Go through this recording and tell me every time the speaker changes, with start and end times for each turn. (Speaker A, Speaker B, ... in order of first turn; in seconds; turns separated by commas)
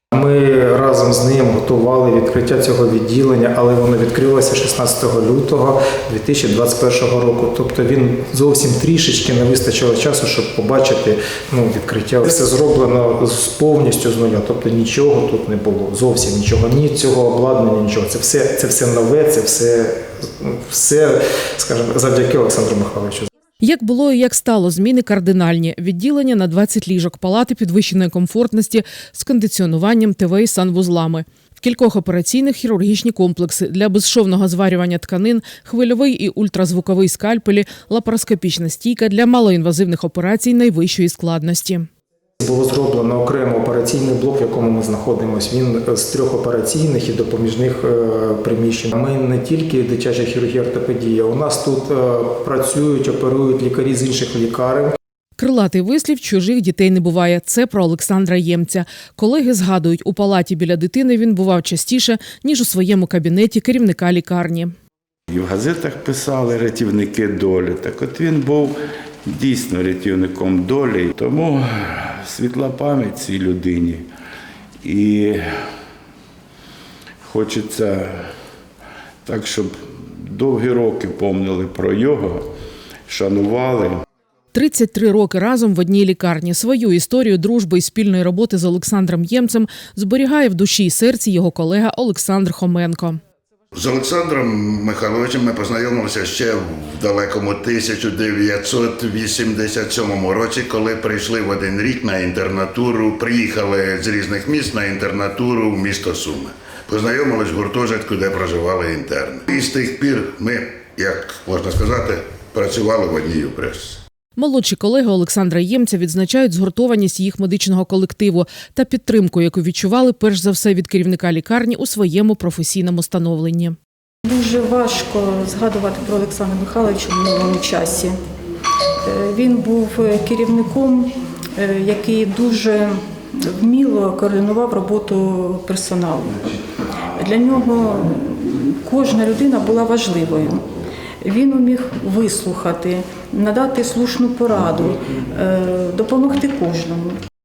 Speaker A: 0.1-23.3, Speaker B: 23.6-41.9, Speaker A: 42.4-55.0, Speaker B: 55.4-64.7, Speaker C: 65.3-74.1, Speaker C: 74.8-75.4, Speaker C: 77.3-78.3, Speaker C: 79.2-82.5, Speaker C: 83.1-84.0, Speaker B: 84.5-93.2, Speaker D: 93.7-114.0, Speaker B: 114.4-123.8, Speaker E: 124.2-128.1, Speaker E: 129.1-136.5, Speaker E: 137.1-140.7, Speaker E: 141.2-147.2